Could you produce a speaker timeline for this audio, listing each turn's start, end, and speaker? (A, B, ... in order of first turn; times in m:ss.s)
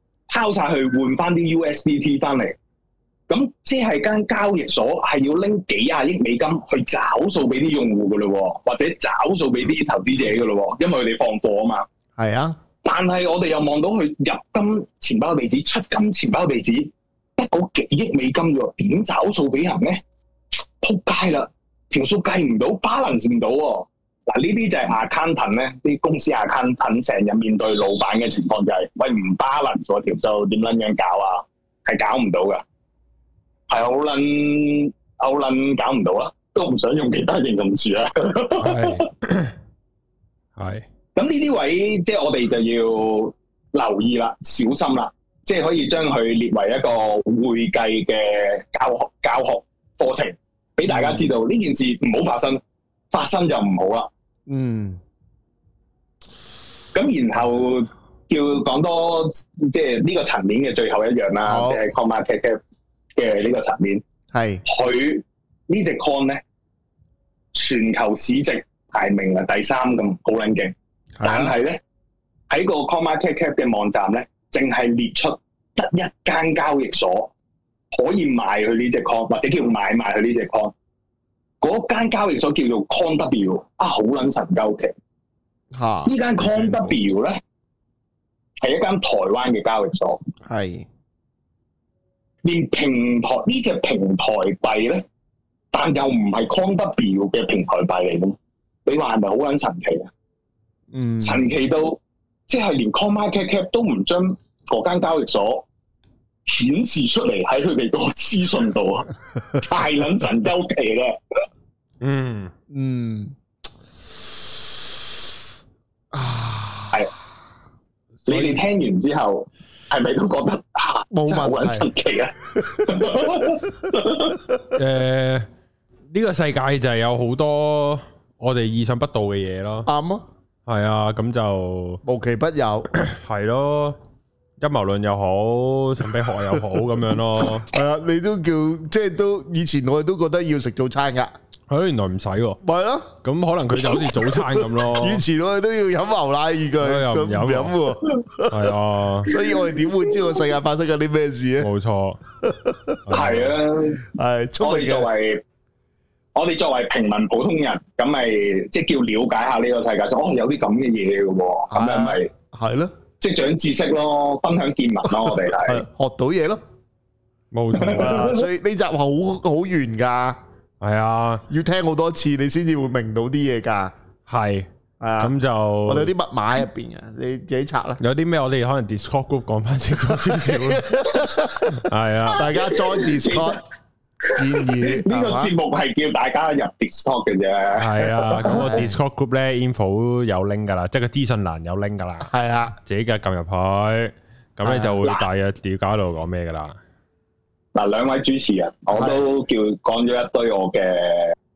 0:00.3-0:02.6 A
0:03.3-0:11.8 A
0:12.2-0:12.6 B
0:12.8-0:20.0 A
0:20.8-0:32.6 A
0:33.7-0:39.0 A
0:38.6-0:39.5 C
0:40.6-0:40.8 C
0:41.1-0:52.6 A
0:50.8-0:51.3 B
0:53.1-0:54.1 A
0:54.5-0:55.0 B
0:56.9-1:02.6 A
1:01.4-1:01.8 B
1:03.2-1:04.0 A
1:04.3-1:04.6 B
1:04.6-1:06.4 A
1:07.5-1:11.8 A
1:11.2-1:11.6 B
1:12.5-1:17.3 A
1:17.9-1:20.7 A
1:21.6-1:24.9 A
1:25.7-1:27.0 B
1:26.0-1:27.4 A
1:28.6-1:30.2 A
1:30.4-1:30.9 B
1:32.4-1:35.0 A
1:35.7-1:38.3 A
1:38.8-1:40.1 A
1:40.9-1:41.5 B
1:41.2-1:45.6 A
1:46.5-1:51.2 A
1:52.0-1:52.5 C
1:52.7-1:53.3 B
1:56.1-1:57.0 B
1:58.2-1:58.6 C
1:58.3-2:04.4 A
2:01.1-2:01.9 B
2:02.5-2:03.4 B
2:04.7-2:05.5 C
2:06.1-2:09.9 C
2:09.8-2:10.2 B
2:10.7-2:12.0 C
2:12.0-2:12.9 B
2:13.1-2:14.0 C
2:14.6-2:17.7 C
2:17.7-2:21.3 B
2:21.7-2:22.6 C
2:22.6-2:23.1 B
2:23.2-2:25.2 C
2:23.7-2:28.7 B
2:26.8-2:27.8 C
2:28.5-2:29.3 C
2:29.2-2:31.7 B
2:29.4-2:29.7 A
2:31.6-2:32.2 C
2:32.4-2:33.0 B
2:33.1-2:33.6 C
2:33.1-2:34.0 A
2:34.0-2:35.1 B
2:34.6-2:35.4 A
2:36.3-2:42.3 A
2:41.7-2:42.9 B
2:43.2-2:45.8 A
2:45.3-2:46.6 B
2:47.5-2:48.3 C
2:47.8-2:48.5 A
2:47.9-2:50.4 B
2:50.8-2:51.4 C
2:51.5-2:53.9 B
2:54.3-2:54.7 C
2:55.0-2:55.3 B
2:55.2-2:56.1 C
2:55.9-2:58.0 B
2:58.0-3:00.9 C
3:00.2-3:03.6 B
3:01.8-3:02.5 C
3:02.4-3:03.6 A
3:04.2-3:08.8 A
3:04.4-3:05.5 B
3:07.8-3:12.3 C
3:08.4-3:08.9 B
3:12.3-3:12.7 B
3:12.8-3:16.8 C
3:14.6-3:15.0 B
3:17.7-3:21.3 A
3:18.9-3:19.2 B